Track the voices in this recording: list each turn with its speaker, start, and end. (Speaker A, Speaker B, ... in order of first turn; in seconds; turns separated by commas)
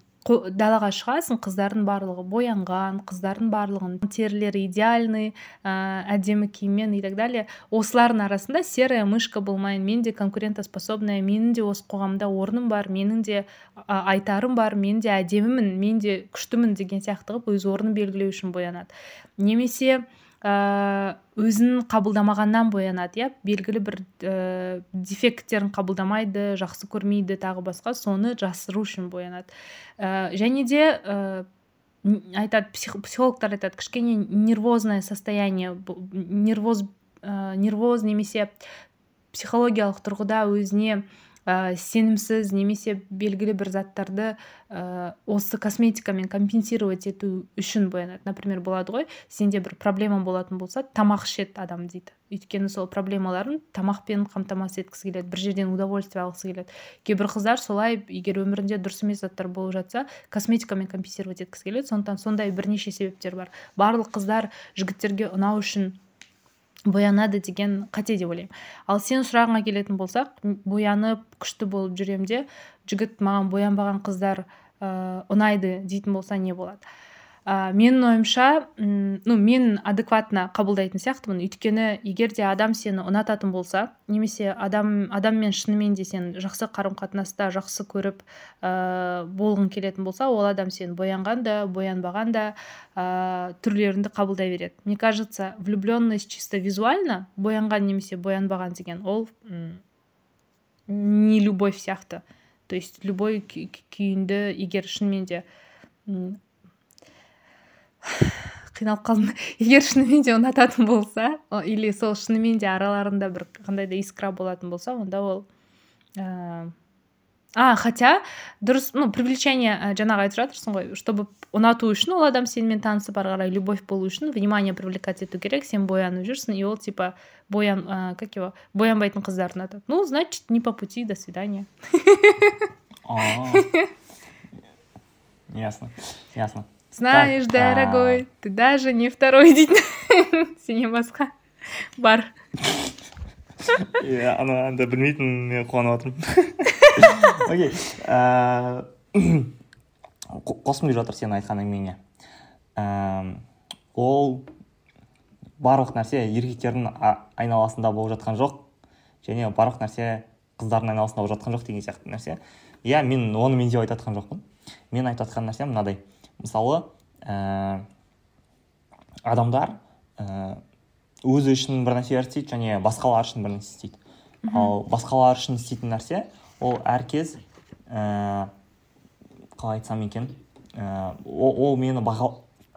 Speaker A: 0.2-31.5, Speaker A: 32.0-38.5, Speaker A: 39.3-66.0, Speaker A: 66.9-76.8, Speaker A: 77.5-99.8, Speaker A: 100.9-105.5, Speaker A: 106.1-106.4, Speaker A: 108.0-115.5, Speaker A: 116.2-116.7, Speaker A: 117.6-132.7, Speaker B: 133.1-133.7, Speaker A: 133.5-133.9, Speaker B: 135.5-138.2, Speaker A: 136.9-141.3, Speaker A: 142.0-142.3, Speaker B: 143.8-149.5, Speaker B: 150.3-152.0, Speaker B: 152.8-154.5, Speaker B: 155.6-158.7, Speaker B: 159.2-167.9, Speaker B: 169.2-170.6, Speaker B: 171.2-174.0, Speaker A: 174.5-174.7, Speaker B: 174.5-178.5, Speaker B: 179.6-182.4